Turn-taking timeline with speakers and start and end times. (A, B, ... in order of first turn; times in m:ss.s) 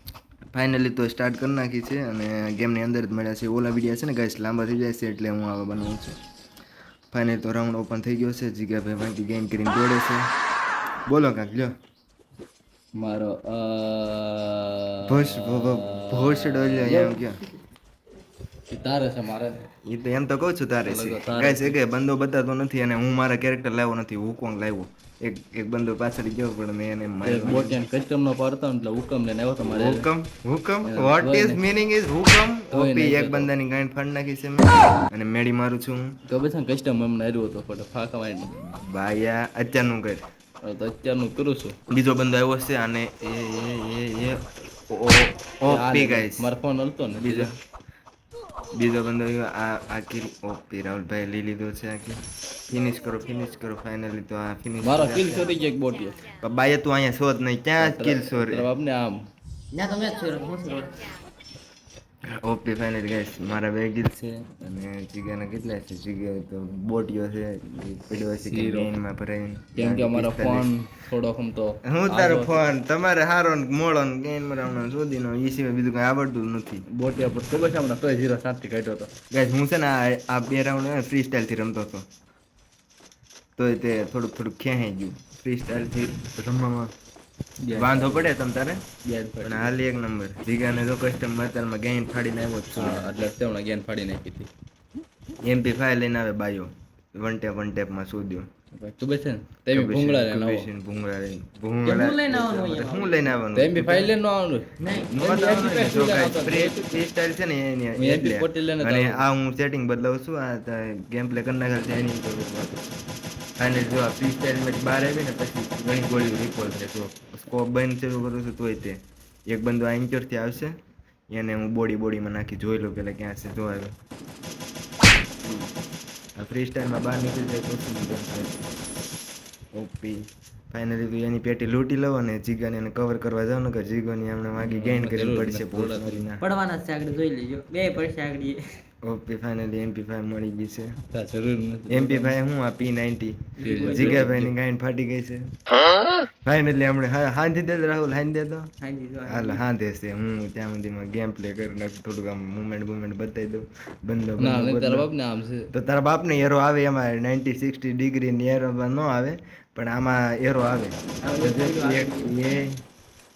0:00.5-0:06.2 A
0:07.1-0:10.3 A
0:11.1-0:11.7 A
0:13.0-0:17.2 B
0:15.0-0:17.4 A
0:18.7-0:19.7 B
0:19.8-0:27.8 A
0:20.8-0:21.8 B
0:27.2-0:30.1 B
0:29.6-0:36.1 A
0:30.8-0:31.6 B
0:32.7-0:33.5 B
0:36.3-0:38.5 B
0:38.5-0:40.2 A
0:40.6-0:41.8 B
0:41.9-0:46.5 A
0:45.7-0:47.5 B
0:47.1-0:47.5 A
0:48.7-0:52.2 A
0:52.7-0:55.5 A
0:54.8-0:56.2 B
0:56.4-0:58.7 A
0:57.8-0:59.2 B
0:59.7-1:00.9 C
1:02.4-1:10.7 A
1:08.4-1:08.9 B
1:09.8-1:12.7 B
1:11.8-1:16.8 A
1:16.9-1:19.1 B
1:19.3-1:22.0 A
1:23.6-1:26.9 A
1:27.6-1:28.3 B
1:27.8-1:28.8 A
1:29.0-1:29.7 B
1:29.4-1:33.1 A
1:32.7-1:34.5 B
1:35.4-1:38.5 A
1:38.7-1:40.7 B
1:39.7-1:44.1 A
1:41.8-1:43.3 C
1:43.5-1:46.9 B
1:44.8-1:45.1 C
1:45.1-1:52.8 A
1:48.0-1:49.2 B
1:53.6-1:59.0 A
1:59.5-2:00.8 A
2:01.3-2:03.9 A
2:06.4-2:08.7 A
2:09.7-2:16.4 A
2:14.6-2:16.2 B
2:16.4-2:18.8 C
2:19.0-2:20.9 A
2:21.1-2:22.3 B
2:21.9-2:25.5 A
2:23.6-2:24.3 C
2:23.6-2:24.5 B
2:26.4-2:28.7 A
2:28.8-2:29.6 C
2:29.2-2:35.1 A
2:34.4-2:35.7 B
2:35.7-2:42.8 A
2:41.2-2:42.4 C